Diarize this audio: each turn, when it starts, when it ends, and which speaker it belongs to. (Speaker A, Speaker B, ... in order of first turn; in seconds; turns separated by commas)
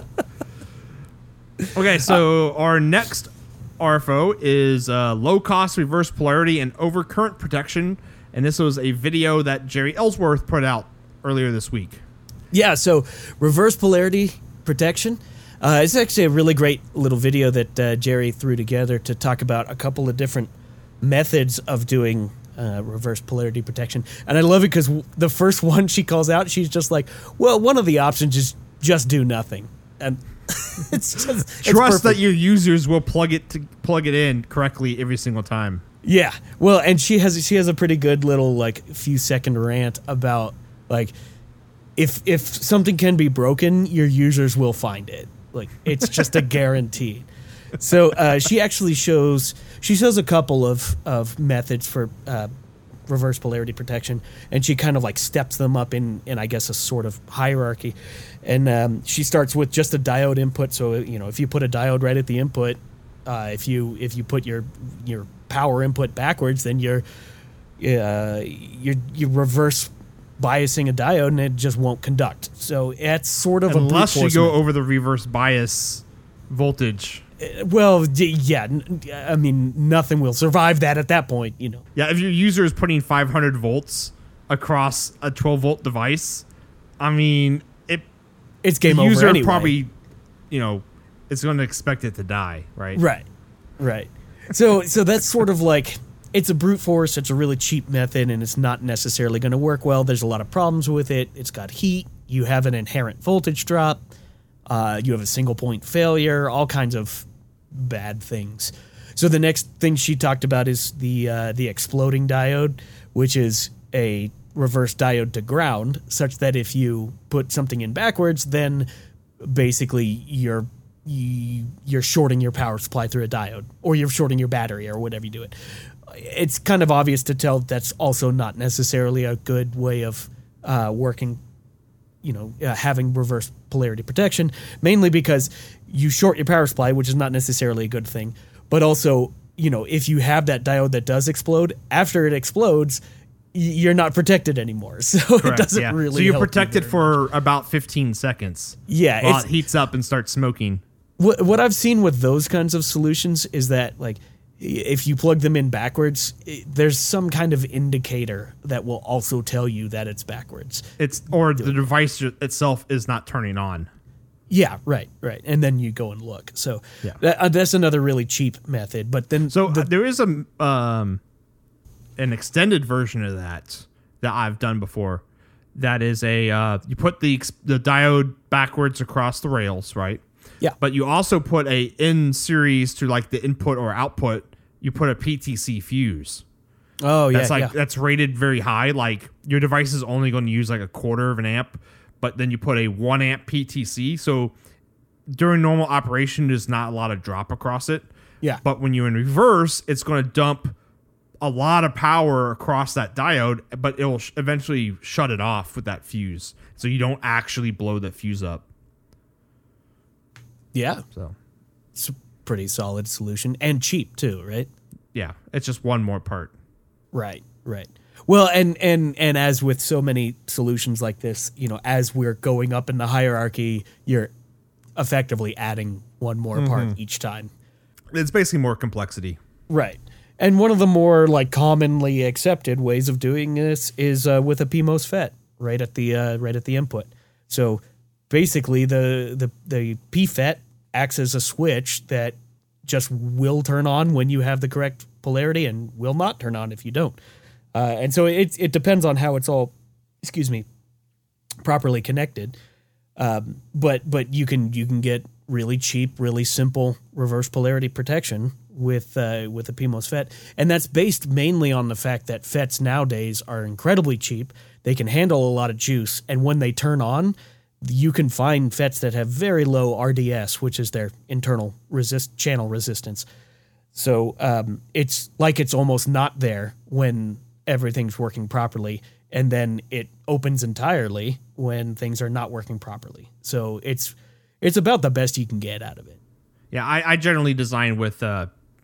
Speaker A: 1.7-12.0, Speaker B: 12.5-32.2, Speaker A: 31.6-35.8, Speaker B: 36.0-41.1, Speaker B: 42.0-47.3, Speaker B: 47.8-52.5, Speaker B: 53.1-67.0, Speaker B: 67.8-74.6, Speaker A: 73.7-77.2, Speaker B: 77.4-81.8, Speaker A: 81.9-86.4, Speaker A: 87.0-88.1, Speaker B: 88.6-89.7, Speaker A: 88.8-89.9, Speaker A: 90.5-93.0, Speaker B: 93.0-93.2, Speaker B: 93.8-104.0, Speaker B: 104.7-118.9, Speaker B: 119.4-125.5, Speaker B: 126.0-131.4, Speaker B: 132.2-143.0, Speaker B: 143.5-147.1, Speaker A: 145.4-150.8, Speaker B: 148.9-149.5, Speaker B: 151.2-160.9, Speaker A: 161.0-163.9, Speaker B: 161.6-161.8, Speaker B: 164.5-169.9, Speaker A: 169.5-171.2, Speaker A: 172.2-175.2, Speaker A: 175.8-180.2, Speaker A: 180.8-186.4, Speaker B: 187.0-187.7, Speaker A: 187.3-194.5, Speaker A: 195.3-198.1, Speaker A: 198.6-200.7, Speaker A: 201.4-208.6, Speaker B: 210.7-211.0, Speaker B: 211.9-214.7, Speaker A: 215.1-216.5, Speaker B: 217.1-224.3, Speaker B: 224.9-227.5, Speaker A: 226.5-226.9, Speaker A: 228.1-229.4, Speaker B: 229.7-247.2, Speaker B: 247.7-250.6, Speaker B: 251.6-252.6, Speaker B: 253.2-273.2, Speaker B: 273.9-286.2, Speaker A: 286.7-288.5